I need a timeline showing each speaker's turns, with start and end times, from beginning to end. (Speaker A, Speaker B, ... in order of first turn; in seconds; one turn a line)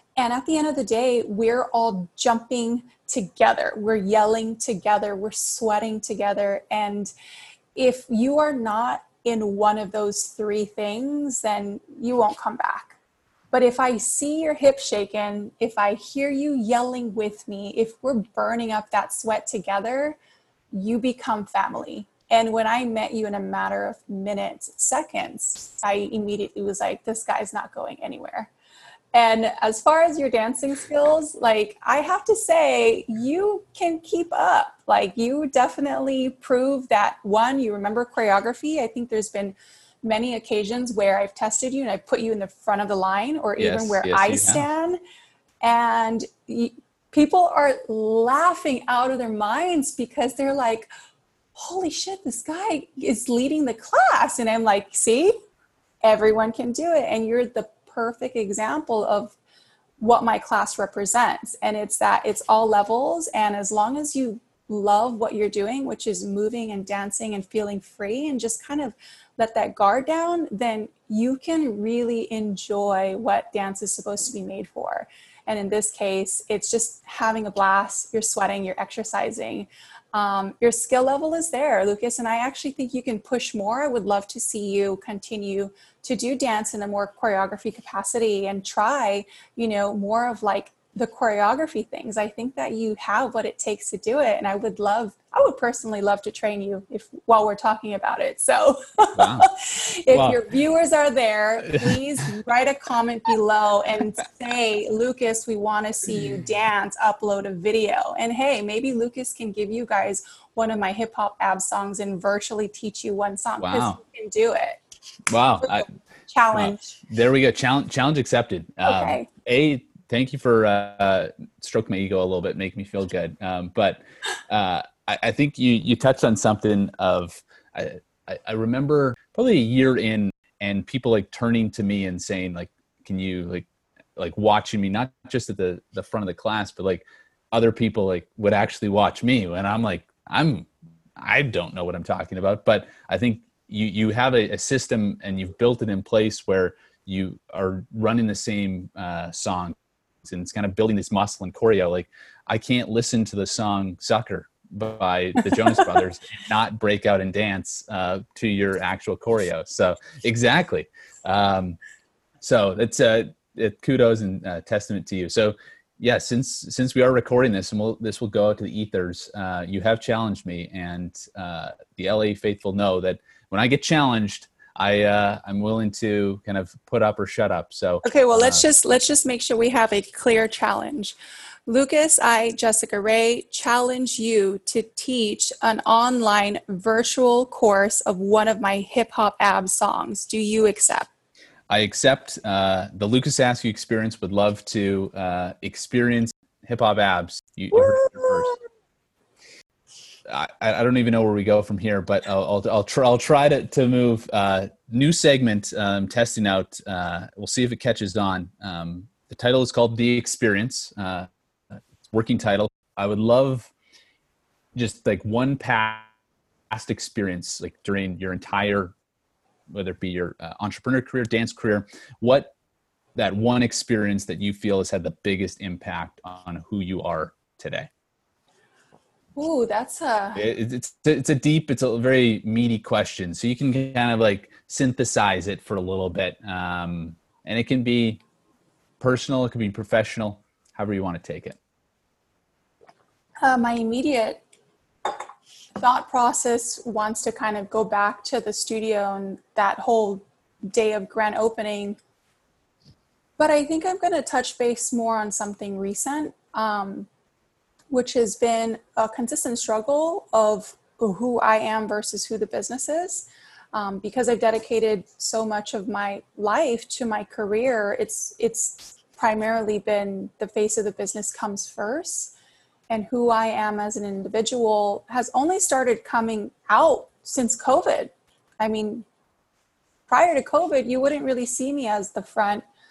Speaker A: 0.1-7.1
Speaker A: 7.8-12.9
Speaker A: 13.5-20.2
Speaker A: 20.7-28.5
Speaker A: 29.1-45.0
Speaker B: 43.6-44.6
Speaker A: 45.6-50.9
Speaker A: 51.5-55.3
Speaker A: 56.0-59.4
Speaker A: 60.0-114.8
Speaker B: 99.1-99.5
Speaker B: 100.1-100.4
Speaker B: 101.7-102.0
Speaker B: 113.6-114.0
Speaker B: 115.3-115.9
Speaker A: 115.6-117.0
Speaker B: 116.5-161.8
Speaker A: 118.8-119.3
Speaker B: 162.4-178.6
Speaker A: 178.0-181.2
Speaker A: 181.7-191.1
Speaker B: 191.7-198.6
Speaker A: 197.8-198.3
Speaker B: 200.3-211.3
Speaker B: 212.1-213.7
Speaker B: 214.7-216.1
Speaker B: 216.7-218.9
Speaker B: 219.7-222.5
Speaker B: 223.2-227.9
Speaker A: 229.4-230.4
Speaker B: 230.3-238.2
Speaker B: 239.0-241.6
Speaker A: 243.4-244.4
Speaker A: 245.8-252.0
Speaker A: 253.4-257.1
Speaker A: 257.9-272.3
Speaker A: 272.9-279.0
Speaker A: 280.1-282.6